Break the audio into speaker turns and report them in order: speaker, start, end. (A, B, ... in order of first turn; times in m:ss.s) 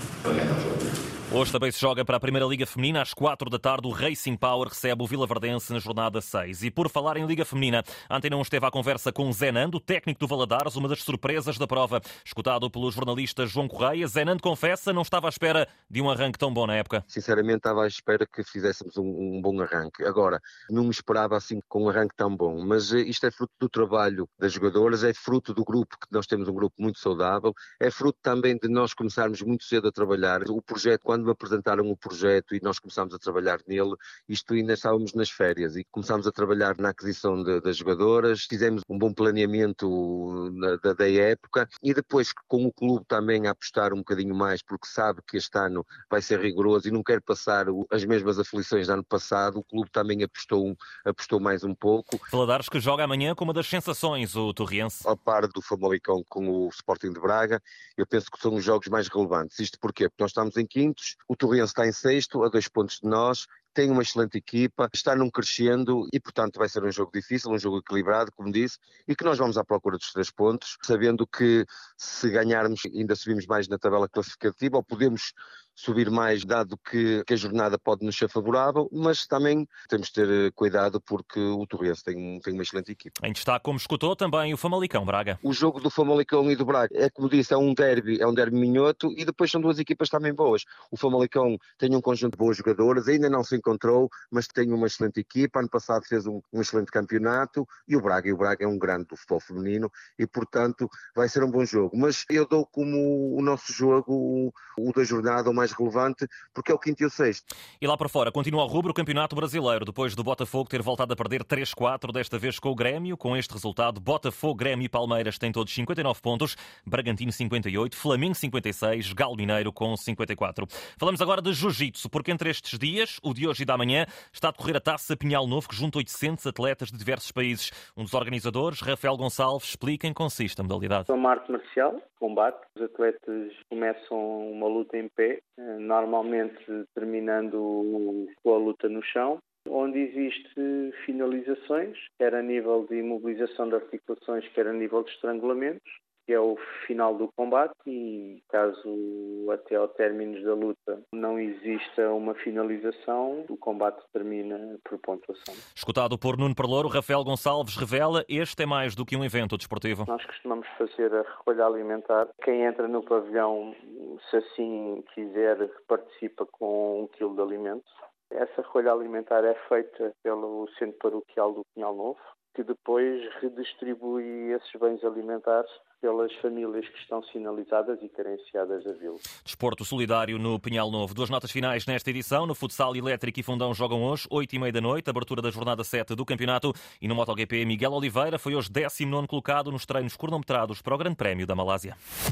0:00.2-0:00.8 A
0:01.3-0:17.0 B
0:17.1-0:52.2 A
0:52.3-0:55.1 B
0:55.0-1:23.1 A
1:23.2-1:25.4 B
1:25.4-1:47.4 A
1:47.8-2:11.1 B
2:11.1-2:35.6 C
2:35.8-2:40.1 B
2:40.1-2:59.2 C
2:59.4-3:12.0 B